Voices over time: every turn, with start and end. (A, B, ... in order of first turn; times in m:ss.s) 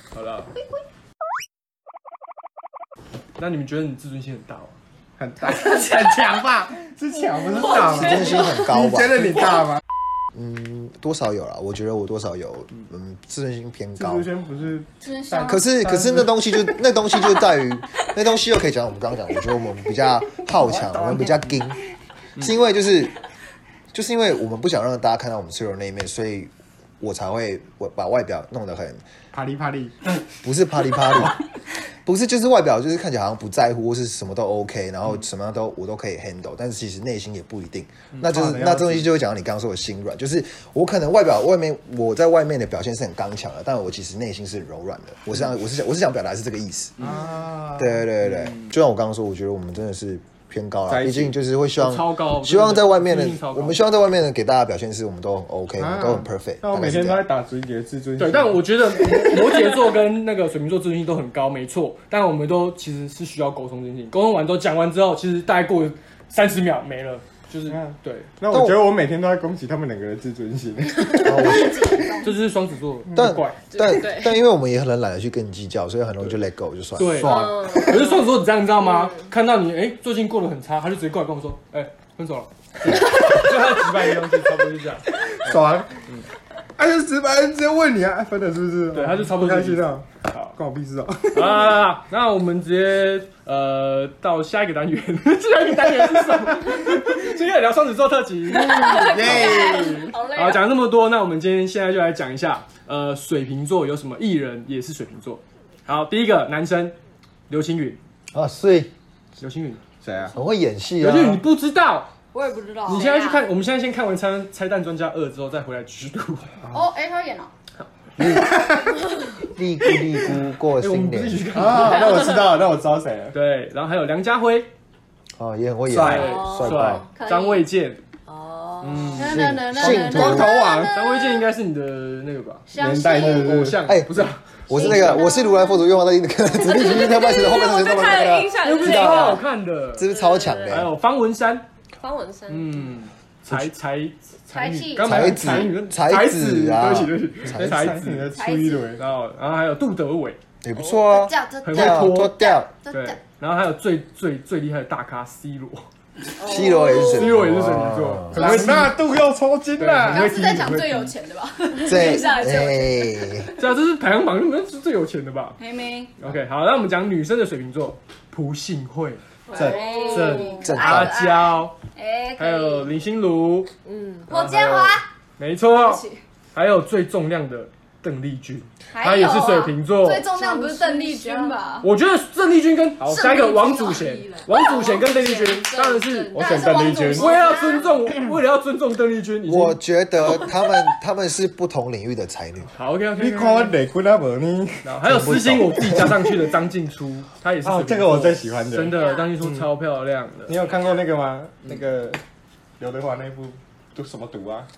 0:00.1-0:00.5 A
0:03.4-0:04.8 A
0:05.2-0:09.8 B
0:07.8-0:09.4 C
0:10.3-0:14.3 C
0:14.0-0:16.7 B
0:15.0-0:15.6 D
0:15.4-0:21.8 C
0:20.6-0:21.5 B
0:22.4-0:23.2 C
0:23.9-0:29.0 C
0:29.3-0:30.2 B
0:30.4-0:31.4 C
0:32.0-0:47.0 C
0:38.2-0:39.1 B
0:47.0-0:47.3 A
0:47.0-0:48.5 B
0:47.8-0:57.2 C
0:50.9-0:51.3 B
0:51.8-0:53.8 A
0:55.8-0:59.4 B
0:58.2-1:08.3 A
1:07.7-1:11.6 B
1:08.5-1:08.9 C
1:11.1-1:12.4 D
1:11.2-1:11.9 C
1:12.2-1:13.6 A
1:13.1-1:17.8 C
1:13.7-1:14.4 E
1:17.0-1:26.2 A
1:17.2-1:18.3 E
1:18.8-1:19.3 E
1:25.3-1:26.0 B
1:26.8-1:31.7 B
1:28.9-1:30.6 A
1:31.3-1:46.9 A
1:38.5-1:40.1 B
1:38.6-1:40.7 D
1:47.5-1:48.0 A
1:48.3-1:48.9 C
1:49.4-1:49.8 A
1:50.0-1:50.4 B
1:50.3-1:51.4 C
1:51.0-1:52.1 A
1:52.3-1:53.4 D
1:52.8-1:56.6 A
1:52.9-1:53.4 E
1:56.7-1:57.5 D
1:58.2-1:58.7 C
1:58.2-1:59.0 B
1:59.5-2:01.4 C
2:00.3-2:02.2 A
2:01.5-2:03.4 B
2:03.3-2:04.7 A
2:05.4-2:07.0 C
2:05.9-2:08.0 A
2:06.0-2:06.3 B
2:06.0-2:07.0 E
2:07.2-2:07.6 D
2:08.3-2:11.4 E
2:08.8-2:09.4 A
2:09.2-2:10.9 D
2:09.2-2:10.6 C
2:09.7-2:11.0 B
2:10.9-2:15.2 A
2:12.7-2:13.8 B
2:12.8-2:13.5 E
2:13.8-2:19.4 C
2:14.7-2:15.7 D
2:14.8-2:15.6 E
2:16.6-2:19.4 E
2:16.8-2:17.9 D
2:18.6-2:20.1 A
2:19.9-2:20.9 C
2:20.0-2:20.8 E
2:20.7-2:21.6 A
2:22.0-2:22.9 E
2:22.5-2:28.3 A
2:24.5-2:25.6 D
2:25.0-2:27.9 C
2:27.5-2:29.0 B
2:28.3-2:29.0 D
2:29.0-2:30.4 A
2:30.6-2:32.7 C
2:30.7-2:33.2 D
2:31.6-2:35.8 A
2:36.4-2:37.3 D
2:36.4-2:38.6 C
2:36.5-2:37.1 E
2:36.9-2:39.0 A
2:38.3-2:41.1 B
2:39.8-2:40.4 A
2:40.1-2:43.5 D
2:41.8-2:43.5 C
2:43.6-2:45.6 A
2:45.6-2:46.1 D
2:46.2-2:49.2 A
2:49.5-2:50.7 E
2:49.5-2:52.9 D
2:49.5-2:50.0 B
2:50.0-2:51.8 A
2:50.6-2:51.2 C
2:52.4-2:53.7 A
2:53.8-2:54.3 E
2:54.3-2:55.0 D
2:54.3-2:56.0 A
2:55.7-2:56.2 D
2:56.5-3:00.3 A
2:58.9-3:01.9 D
3:00.3-3:01.8 E
3:01.8-3:10.4 A
3:03.1-3:07.9 D
3:04.5-3:05.7 E
3:06.3-3:07.4 B
3:07.1-3:08.0 E
3:09.4-3:12.7 C
3:12.7-3:13.8 A
3:13.1-3:15.3 B
3:14.8-3:20.6 A
3:15.0-3:16.0 C
3:15.8-3:16.1 B
3:17.6-3:19.6 B
3:19.0-3:19.2 E
3:20.5-3:22.2 B
3:22.8-3:24.7 B